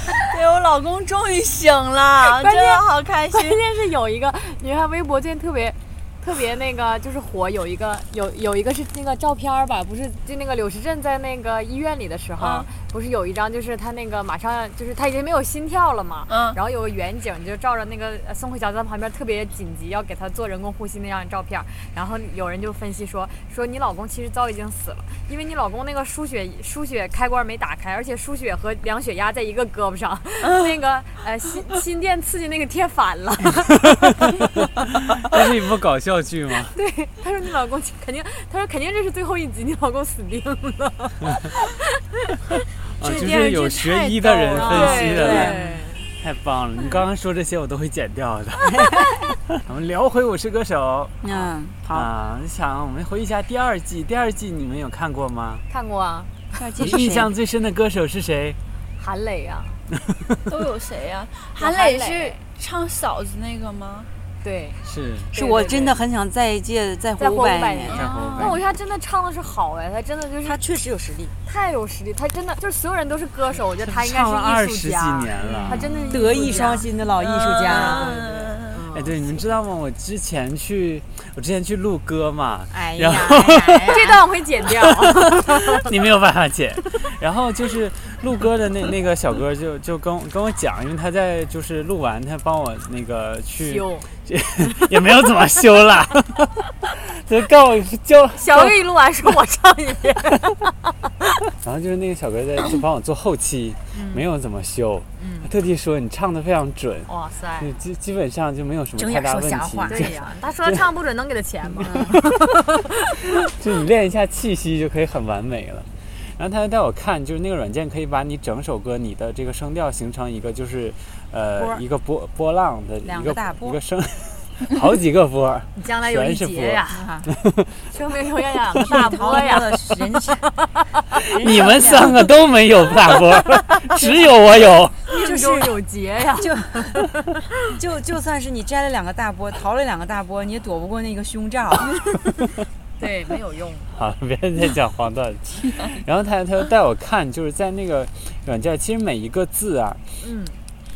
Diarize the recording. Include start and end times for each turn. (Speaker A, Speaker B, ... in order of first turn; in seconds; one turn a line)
Speaker A: 0.2-3.6
Speaker B: 2.2-34.6
Speaker A: 16.3-16.6
Speaker A: 30.4-30.8
Speaker C: 35.2-36.8
Speaker B: 36.7-42.4
Speaker C: 42.9-51.2
Speaker A: 43.0-45.5
Speaker D: 44.5-45.6
Speaker B: 44.6-46.1
Speaker D: 51.2-52.1
Speaker C: 51.9-55.6
Speaker B: 55.7-57.0
Speaker D: 56.6-57.3
Speaker C: 56.8-58.6
Speaker B: 59.0-59.8
Speaker A: 60.5-64.1
Speaker B: 61.6-62.4
Speaker B: 64.4-64.8
Speaker C: 64.8-65.3
Speaker B: 65.3-66.0
Speaker D: 65.3-68.5
Speaker B: 67.2-70.6
Speaker C: 67.9-68.6
Speaker D: 70.4-71.3
Speaker B: 71.5-76.9
Speaker C: 73.8-76.1
Speaker D: 75.5-78.2
Speaker A: 77.2-78.8
Speaker B: 77.6-79.4
Speaker C: 78.9-84.0
Speaker D: 82.7-84.2
Speaker B: 83.9-85.9
Speaker C: 84.8-98.9
Speaker B: 93.6-94.1
Speaker B: 98.4-100.7
Speaker C: 101.6-110.8
Speaker B: 103.9-104.3
Speaker B: 105.2-105.5
Speaker B: 107.1-107.8
Speaker D: 109.0-110.1
Speaker B: 109.9-112.8
Speaker D: 111.8-112.2
Speaker C: 112.0-112.3
Speaker C: 113.4-127.9
Speaker D: 121.6-121.8
Speaker D: 123.0-123.8
Speaker B: 125.8-127.1
Speaker D: 126.9-127.3
Speaker B: 127.9-131.2
Speaker D: 128.8-130.5
Speaker D: 131.3-132.3
Speaker C: 131.4-135.0
Speaker B: 134.0-134.3
Speaker B: 135.1-137.4
Speaker D: 135.2-135.8
Speaker D: 136.4-137.0
Speaker D: 137.7-142.0
Speaker B: 143.0-143.9
Speaker C: 143.9-150.0
Speaker B: 150.2-150.6